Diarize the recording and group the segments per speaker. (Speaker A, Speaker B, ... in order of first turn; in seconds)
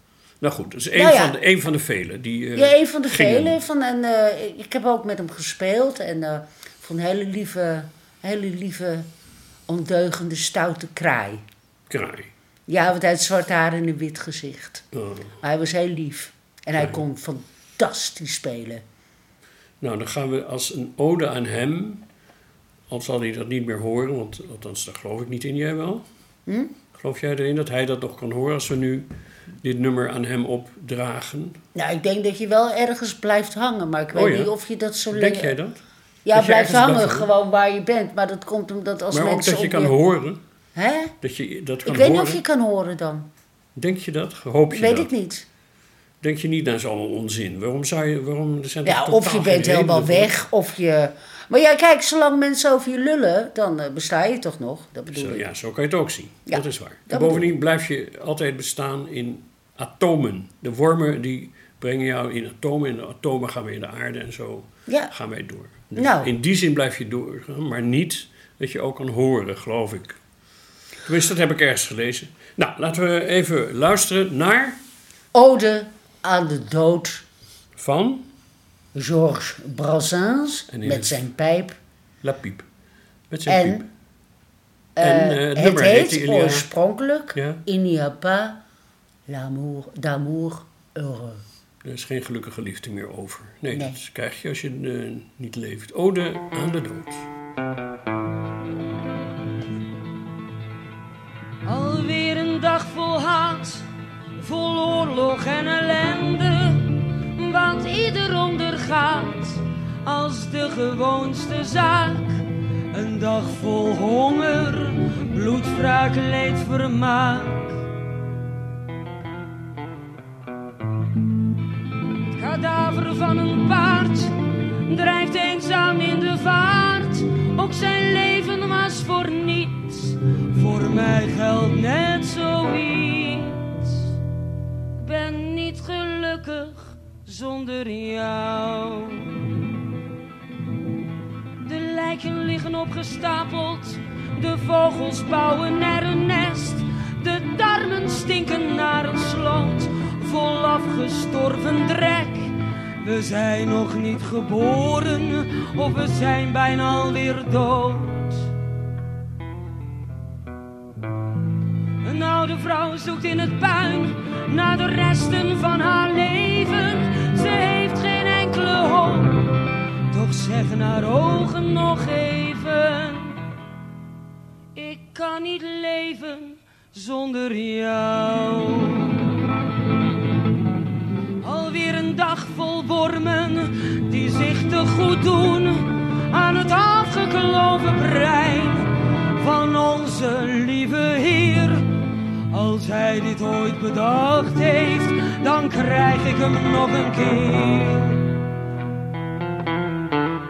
Speaker A: 0.4-3.6, 11.9-12.3, 14.9-15.3, 19.8-22.0, 22.9-26.0, 26.9-29.1, 29.6-31.6, 34.1-34.5, 35.1-35.8, 36.3-37.3, 39.1-40.4, 41.2-42.4, 43.7-45.1, 46.2-50.3, 55.1-70.2, 71.0-74.8, 77.8-78.2, 80.7-81.2, 82.2-82.6, 83.3-83.8, 85.0-86.7, 87.3-87.6, 91.8-97.2
Speaker B: 0.9-1.4, 2.5-9.1, 9.7-11.4, 12.7-14.8, 15.4-18.8, 26.5-26.7, 31.7-35.5, 36.2-39.9, 40.7-41.1, 41.9-43.3, 44.7-45.4, 48.8-55.5, 56.5-57.5, 64.9-65.1, 66.0-66.3, 75.3-77.2, 78.9-81.8, 83.5-83.8, 85.0-88.6, 89.3-91.4, 93.7-94.0
Speaker C: 101.6-117.8, 122.3-124.3, 124.9-134.1, 135.0-139.4, 141.6-158.5, 162.0-169.5, 170.1-173.4, 174.7-179.2, 181.4-191.9, 192.5-198.3